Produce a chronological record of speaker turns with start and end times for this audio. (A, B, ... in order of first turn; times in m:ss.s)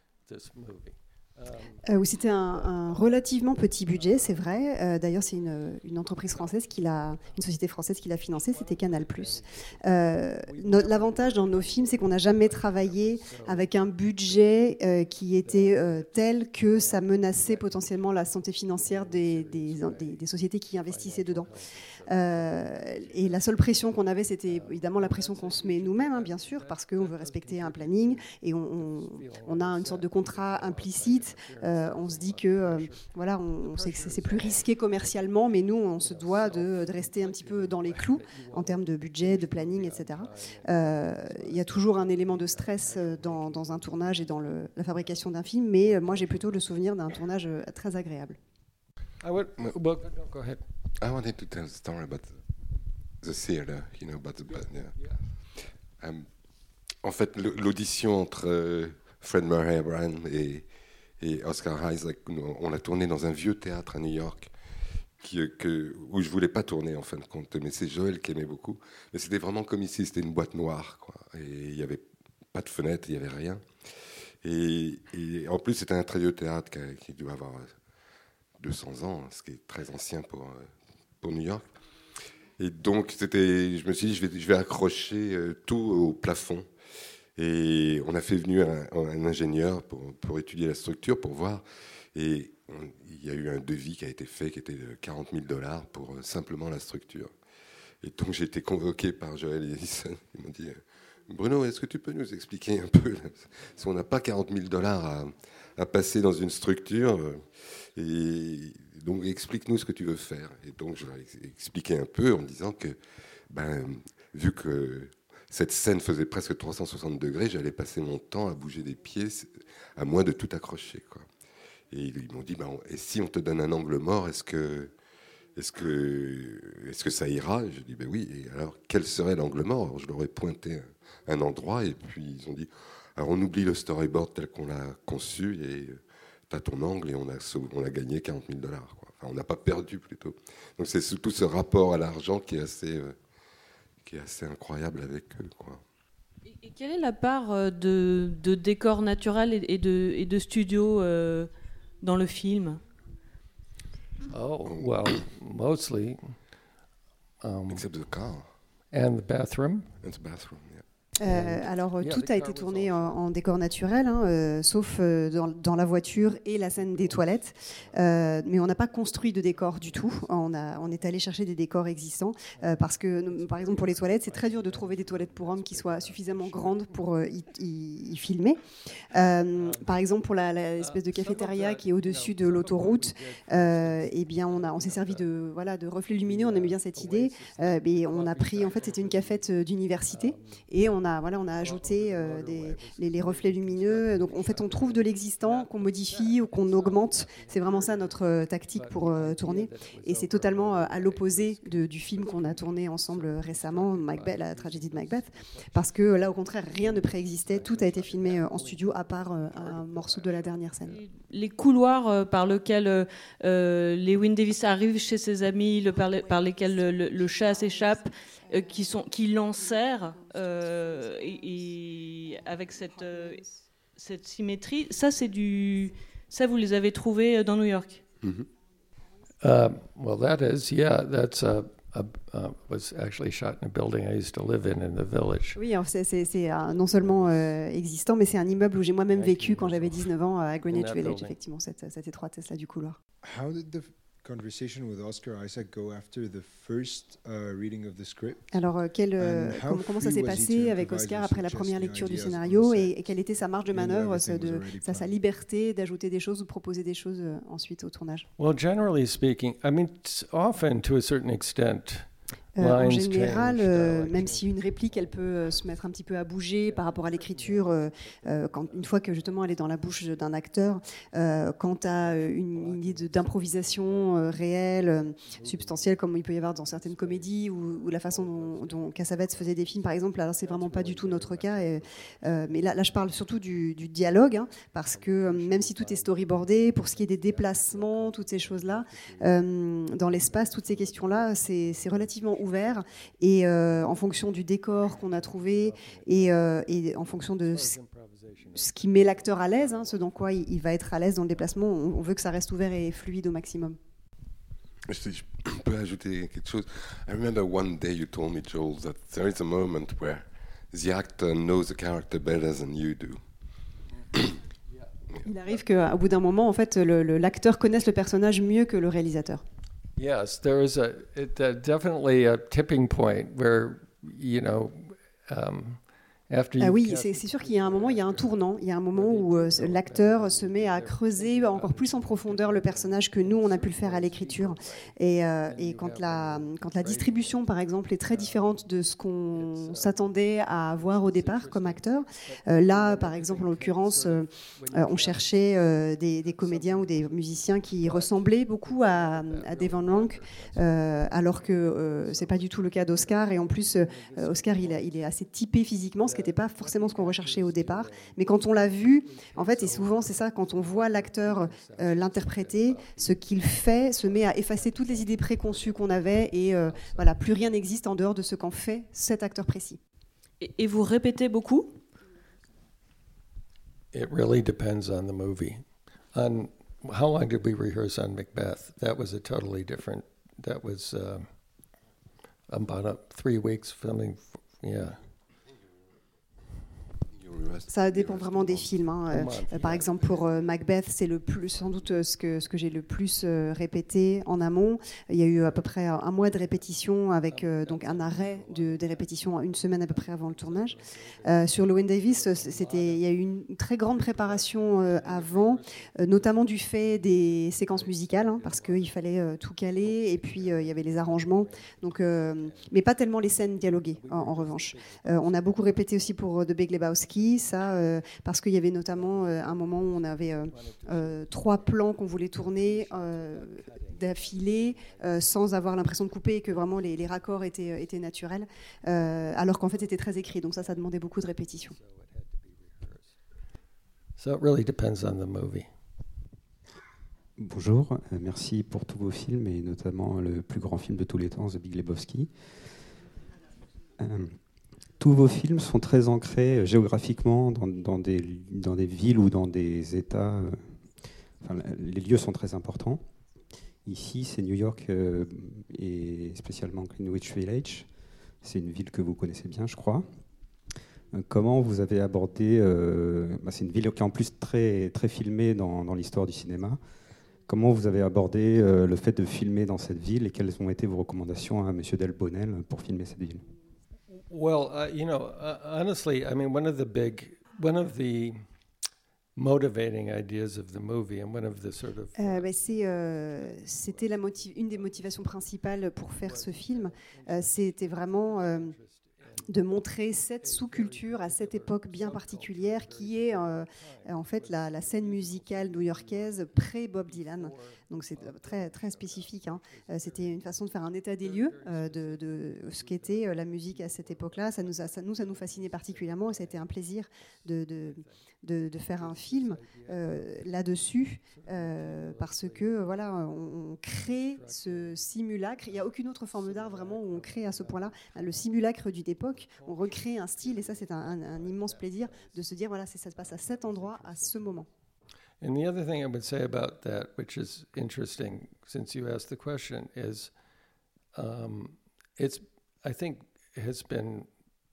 0:00.2-0:01.8 A
0:01.8-0:21.5 B
0:02.5-0:03.3 A
0:03.9-0:04.4 A
0:06.3-0:06.5 A
0:08.4-0:13.8 A
0:15.4-0:16.1 A
0:16.7-0:20.2 A
0:20.9-0:23.5 A
0:22.1-0:48.4 B
0:24.5-0:28.2 A
0:28.8-0:33.1 A
0:33.6-0:34.6 A
0:36.0-0:44.3 A
0:45.8-0:46.5 A
0:49.2-0:50.6 A
0:51.0-0:52.3 C
0:53.2-0:54.9 C
0:54.5-0:55.2 A
0:56.0-0:56.2 C
0:57.0-1:00.6 C
1:01.2-1:04.5 C
1:05.2-1:13.6 C
1:14.4-1:17.7 C
1:18.6-1:21.6 C
1:22.6-1:26.6 C
1:27.4-1:31.6 C
1:32.1-1:37.3 C
1:38.0-1:53.0 C
1:53.5-2:01.2 C
2:01.9-2:04.9 C
2:05.6-2:23.2 C
2:24.0-2:25.8 C
2:26.4-2:31.5 D
2:32.0-2:32.8 D
2:34.3-2:36.4 A
2:37.4-2:37.9 A
2:37.7-2:38.5 C
2:38.9-2:39.9 A
2:40.0-2:40.8 C
2:41.2-2:58.6 B
2:41.2-2:43.2 A
2:46.9-2:48.4 A
2:49.6-2:50.1 A
2:52.6-2:57.0 A
2:59.1-3:31.0 B
2:59.6-2:59.9 A
3:00.8-3:05.2 A
3:06.2-3:09.4 A
3:10.1-3:10.6 A
3:11.6-3:30.7 A
3:30.9-3:43.4 D
3:44.0-3:48.0 D
3:48.2-3:48.5 C
3:49.4-3:55.6 A
3:55.6-4:03.0 B
3:59.1-4:00.1 A
4:00.7-4:01.3 A
4:03.2-4:08.6 E
4:08.5-4:18.3 B
4:09.2-4:13.0 E
4:13.7-4:15.2 E
4:18.4-4:25.6 A
4:22.6-4:57.8 B
4:26.7-4:30.0 A
4:32.0-4:34.2 A
4:35.3-4:38.9 A
4:40.4-4:41.9 A
4:44.9-4:49.4 A
4:50.1-4:52.8 A
4:53.7-4:54.0 A
4:54.7-4:56.4 A
4:57.4-5:00.1 A
4:58.5-5:03.8 B
5:04.9-5:13.2 C
5:15.2-5:19.4 B
5:20.0-5:28.4 A
5:26.6-6:09.8 B
5:28.9-5:34.9 A
5:35.4-5:37.4 A
5:38.1-5:38.6 A
5:39.3-5:55.1 A
5:56.0-6:03.2 A
6:04.0-6:07.4 A
6:10.4-6:11.8 D
6:13.9-6:21.3 A
6:22.5-6:25.0 A
6:27.1-6:28.7 C
6:27.7-7:11.8 B
6:29.1-6:30.4 A
6:37.3-6:43.0 A
6:43.9-6:49.0 A
6:49.8-6:52.7 A
6:53.8-6:56.0 A
6:58.9-6:59.9 A
7:00.5-7:01.8 A
7:02.3-7:05.4 A
7:11.6-7:13.2 A
7:14.2-7:15.7 A
7:17.4-7:22.3 F
7:24.0-7:24.4 F
7:25.0-7:30.7 F
7:31.4-7:33.0 F
7:33.8-7:37.9 F
7:38.4-7:40.1 F
7:41.1-7:46.8 F
7:47.5-7:53.4 F
7:54.1-7:58.4 A
7:59.4-8:02.5 A
8:02.2-8:08.8 B
8:03.4-8:05.4 A
8:06.2-8:09.5 A
8:09.5-8:44.7 B
8:10.4-8:20.4 A
8:21.2-8:26.7 A
8:27.7-8:28.1 A
8:28.8-8:30.6 A
8:31.3-8:32.9 A
8:34.2-8:35.0 A
8:35.7-8:38.2 A
8:39.5-8:42.5 A
8:43.2-8:44.7 A
8:45.4-8:50.3 A
8:51.2-8:54.3 A